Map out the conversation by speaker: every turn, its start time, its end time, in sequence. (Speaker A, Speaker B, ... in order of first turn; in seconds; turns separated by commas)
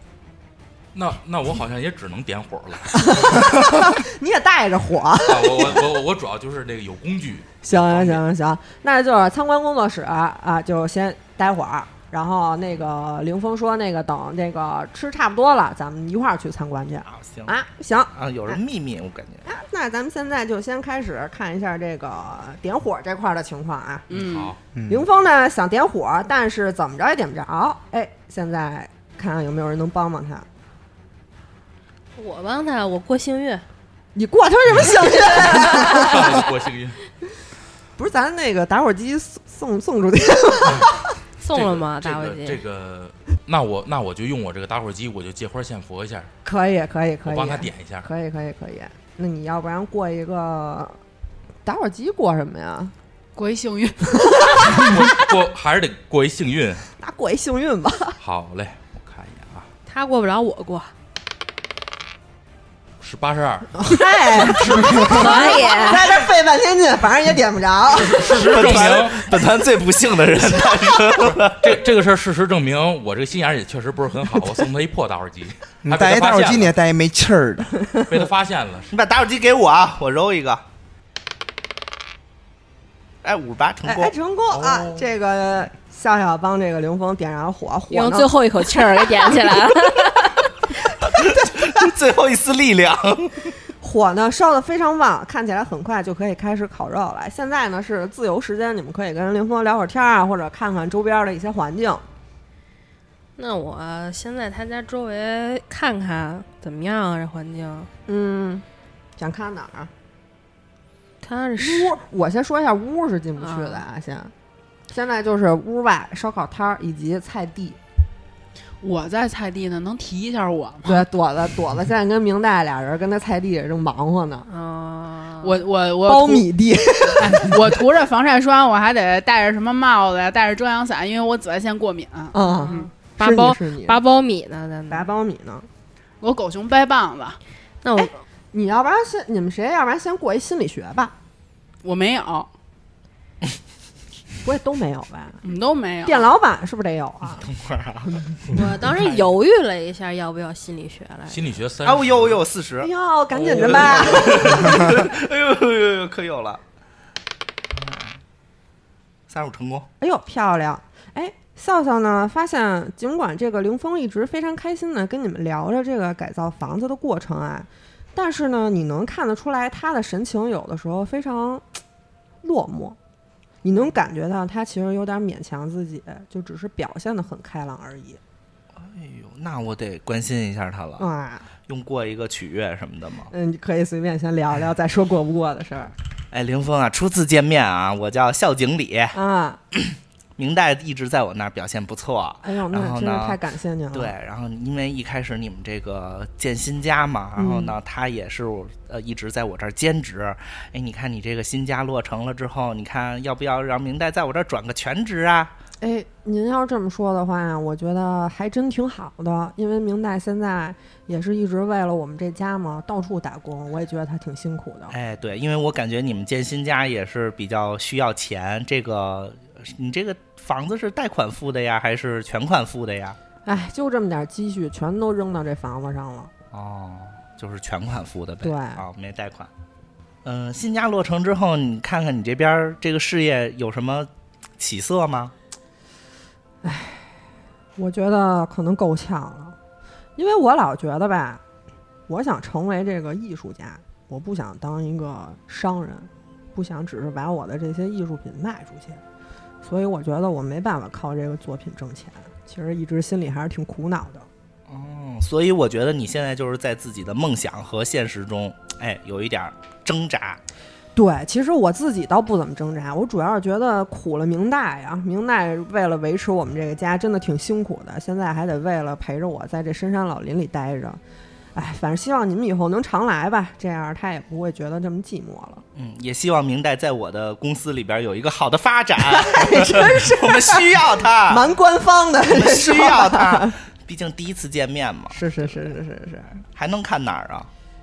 Speaker A: 0.9-3.6, Speaker B: 3.0-5.8, Speaker A: 5.2-8.2, Speaker B: 7.6-18.6, Speaker C: 17.1-17.6, Speaker C: 18.1-19.5, Speaker B: 19.5-24.1, Speaker D: 24.1-24.5, Speaker A: 24.1-24.6, Speaker E: 24.7-25.1, Speaker B: 24.9-30.5, Speaker F: 32.2-33.6, Speaker B: 34.1-36.5, Speaker A: 35.3-37.0, Speaker B: 38.0-41.0, Speaker F: 41.4-42.6, Speaker A: 41.5-46.3, Speaker B: 46.5-51.0, Speaker A: 47.2-48.1, Speaker B: 51.6-52.9, Speaker D: 53.4-54.7, Speaker B: 54.2-54.9, Speaker A: 54.7-56.9, Speaker B: 57.0-58.2, Speaker A: 58.2-59.7, Speaker F: 59.9-60.9, Speaker A: 63.0-65.6, Speaker B: 63.8-68.6, Speaker F: 65.0-66.1, Speaker A: 68.0-69.3, Speaker C: 68.2-71.8, Speaker A: 71.2-76.7, Speaker E: 75.8-77.8, Speaker A: 78.1-78.9, Speaker C: 78.9-80.6, Speaker C: 83.2-84.1, Speaker B: 83.8-88.3, Speaker A: 84.5-85.0, Speaker F: 87.9-90.5, Speaker C: 91.1-93.5, Speaker B: 91.2-91.8, Speaker B: 93.8-102.0, Speaker F: 103.4-107.9, Speaker B: 108.1-108.6, Speaker B: 109.2-109.9, Speaker F: 111.2-111.9, Speaker B: 111.6-114.3, Speaker F: 113.4-113.8, Speaker B: 114.9-117.8, Speaker D: 118.8-121.0, Speaker B: 120.9-124.5, Speaker F: 124.5-125.6, Speaker D: 125.4-126.5, Speaker B: 126.0-127.7, Speaker D: 127.2-132.9, Speaker B: 132.3-134.0, Speaker F: 132.4-135.1, Speaker B: 134.9-135.7, Speaker D: 136.2-137.4, Speaker F: 137.8-138.2, Speaker B: 138.5-141.1, Speaker D: 141.8-142.5, Speaker B: 144.4-145.4, Speaker D: 145.4-146.3, Speaker B: 146.1-147.5, Speaker C: 147.4-149.2, Speaker F: 148.5-151.5, Speaker A: 151.3-152.4, Speaker C: 151.8-156.6, Speaker B: 152.8-154.9, Speaker C: 157.7-158.1, Speaker C: 159.3-159.9, Speaker B: 160.0-171.6, Speaker B: 172.4-173.0, Speaker B: 173.6-178.2, Speaker C: 178.8-181.1, Speaker B: 181.0-181.5, Speaker C: 181.7-183.3, Speaker B: 183.3-185.9, Speaker C: 186.3-189.2, Speaker B: 189.1-189.6, Speaker C: 189.7-193.4, Speaker B: 192.4-194.1, Speaker C: 193.9-205.5, Speaker B: 197.4-197.8, Speaker B: 205.8-214.9, Speaker C: 214.9-223.2, Speaker B: 223.4-226.3, Speaker C: 226.5-229.5, Speaker B: 228.4-228.8, Speaker C: 230.2-235.3, Speaker B: 236.6-237.2, Speaker B: 237.8-239.6, Speaker B: 240.2-241.4, Speaker B: 242.1-249.0, Speaker B: 249.6-254.3, Speaker C: 254.7-260.4, Speaker B: 260.9-271.0, Speaker B: 271.6-275.6, Speaker C: 275.8-281.5, Speaker B: 279.0-283.6, Speaker C: 282.3-285.7, Speaker B: 285.1-286.4, Speaker C: 286.6-287.5